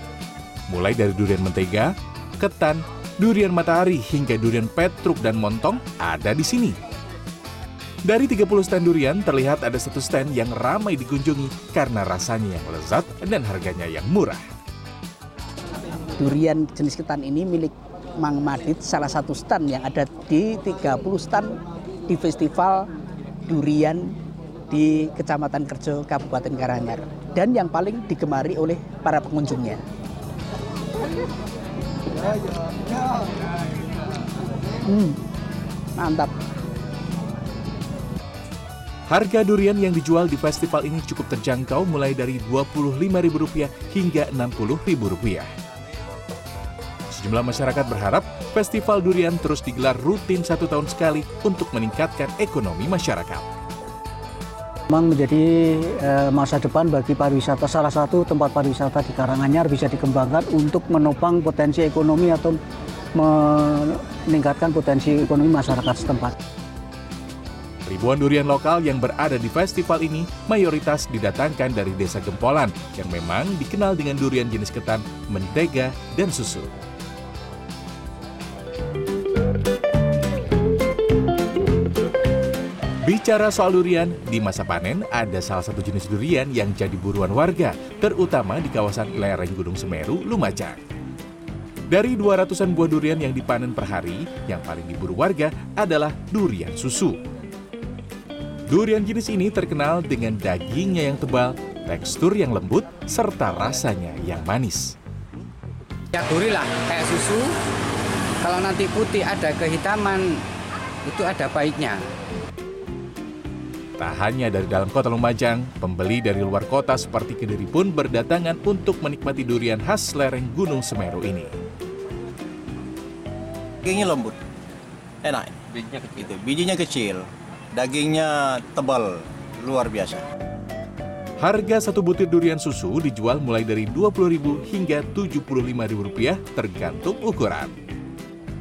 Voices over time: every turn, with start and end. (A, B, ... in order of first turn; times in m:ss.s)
0:00.7-0:06.8 A
0:08.1-0:14.4 A
0:16.2-0:22.9 B
0:23.5-0:24.2 B
0:24.7-0:29.8 B
0:34.9-0:35.2 B
0:36.0-0:36.3 B
0:39.1-0:45.5 A
0:47.1-0:53.4 A
0:54.9-1:02.6 C
1:03.2-1:06.4 C
1:07.9-1:16.7 A
1:23.0-1:30.8 A
1:31.9-1:37.2 A
1:38.7-1:44.9 A
1:46.1-1:47.6 D
1:48.4-1:50.4 D
1:51.0-1:52.0 D
1:54.0-2:01.5 A
2:03.9-2:04.4 E
2:05.2-2:10.2 E
2:11.4-2:17.7 A